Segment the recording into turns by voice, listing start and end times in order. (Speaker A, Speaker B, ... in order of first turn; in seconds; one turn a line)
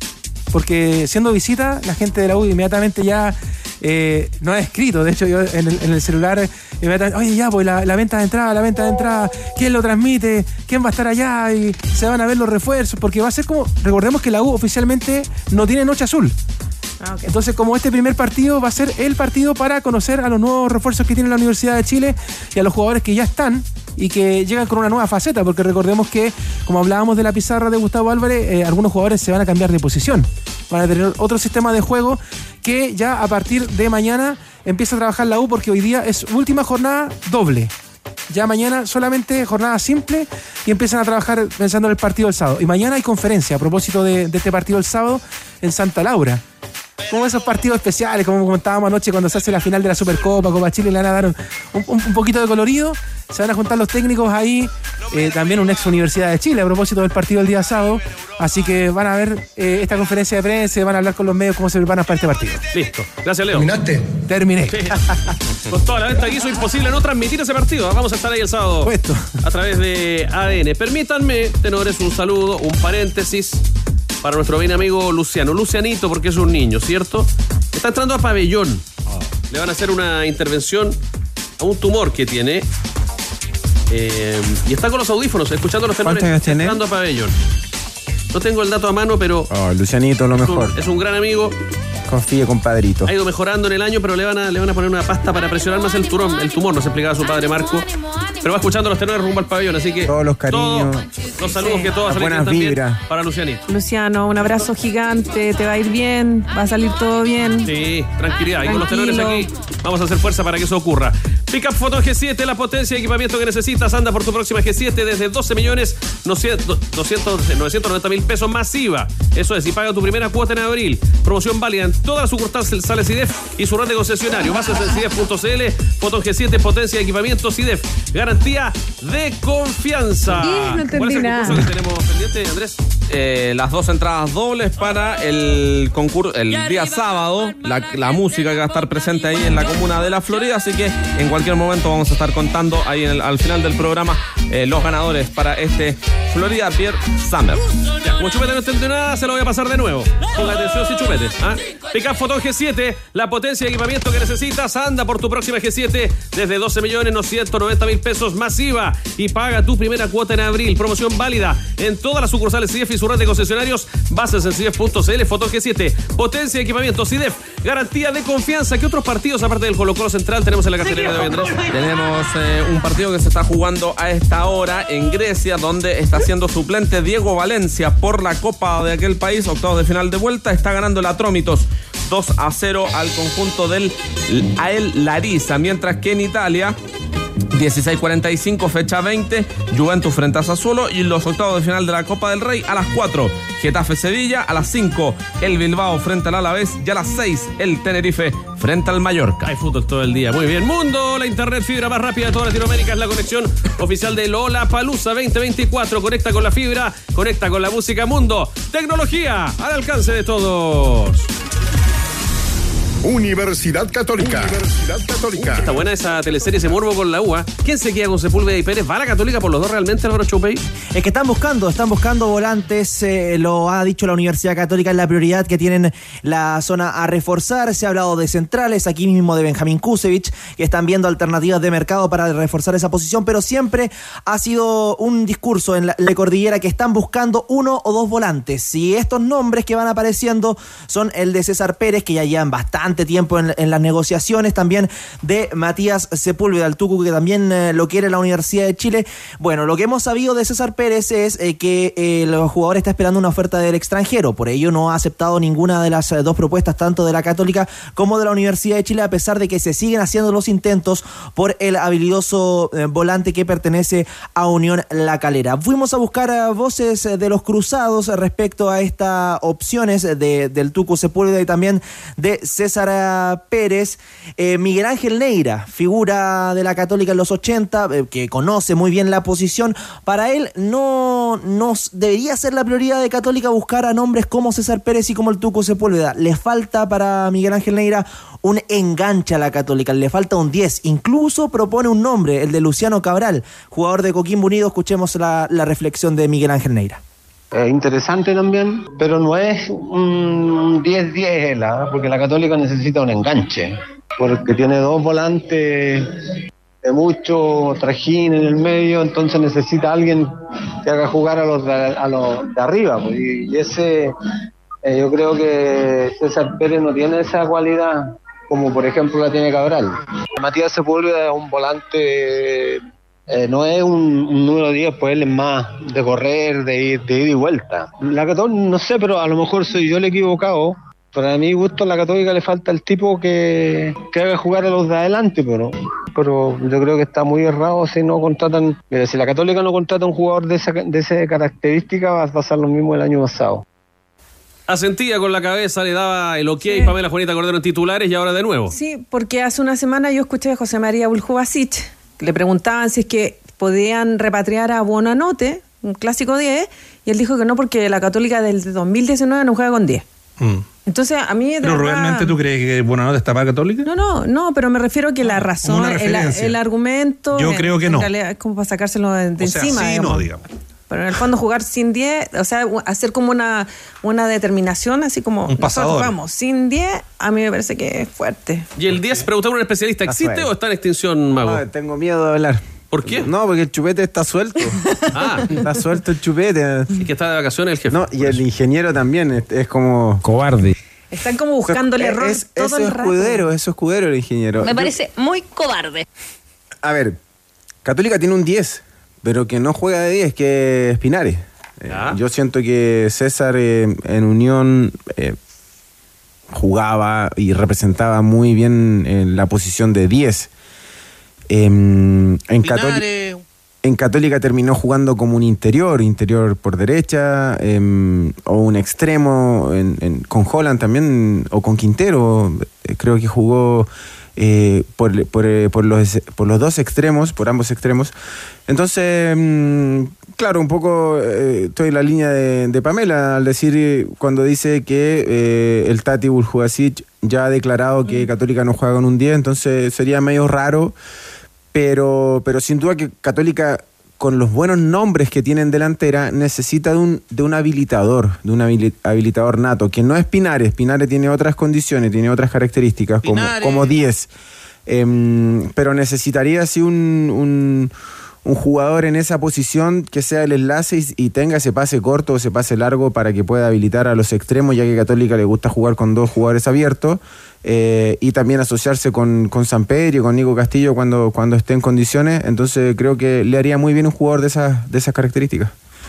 Speaker A: 0.5-16.4
Speaker B: 17.0-17.3
Speaker A: 17.3-37.7
Speaker A: 38.3-46.4
Speaker A: 47.1-62.6
Speaker C: 62.7-63.7
Speaker A: 64.2-64.9
Speaker C: 64.7-65.0
Speaker C: 65.7-73.6
Speaker A: 68.8-69.3
Speaker C: 74.2-78.8
Speaker C: 79.5-81.0
Speaker C: 81.6-82.7
Speaker C: 83.9-87.3
Speaker D: 86.0-86.8
Speaker C: 88.3-89.5
Speaker D: 89.5-90.7
Speaker C: 90.4-91.6
Speaker D: 92.1-93.1
Speaker C: 93.1-97.9
Speaker C: 98.4-103.6
Speaker D: 100.0-101.1
Speaker B: 101.6-101.9
Speaker D: 102.1-103.0
Speaker B: 103.7-107.7
Speaker C: 107.6-132.8
Speaker B: 108.6-109.5
Speaker B: 130.4-131.6
Speaker E: 130.4-131.6
Speaker F: 133.1-147.7
Speaker C: 148.0-171.7
Speaker F: 171.0-186.8
Speaker F: 187.5-199.4
Speaker C: 199.4-211.3
Speaker G: 213.0-215.8
Speaker C: 215.3-220.6
Speaker H: 220.9-297.0
Speaker I: 297.5-306.1
Speaker I: 306.8-314.1
Speaker I: 314.9-343.6
Speaker C: 344.7-348.7
Speaker B: 346.6-346.9
Speaker B: 348.7-360.1
Speaker J: 360.4-360.6
Speaker B: 360.9-362.4
Speaker J: 361.6-363.9
Speaker B: 363.9-370.2
Speaker J: 365.2-366.6
Speaker J: 367.3-368.1
Speaker J: 369.4-370.4
Speaker B: 370.9-378.7
Speaker J: 375.5-376.1
Speaker C: 378.8-381.6
Speaker D: 380.1-380.5
Speaker D: 381.4-384.8
Speaker C: 382.9-383.3
Speaker C: 385.1-385.5
Speaker D: 385.4-386.9
Speaker C: 387.0-388.4
Speaker D: 387.9-390.7
Speaker B: 391.1-393.4
Speaker D: 391.6-394.9
Speaker E: 394.6-396.1
Speaker D: 396.8-397.2
Speaker D: 397.9-405.4
Speaker C: 401.9-402.2
Speaker D: 406.5-410.5
Speaker D: 411.5-413.1
Speaker D: 413.8-428.1
Speaker D: 428.7-441.0
Speaker D: 441.7-454.3
Speaker D: 454.9-457.9
Speaker D: 458.4-475.7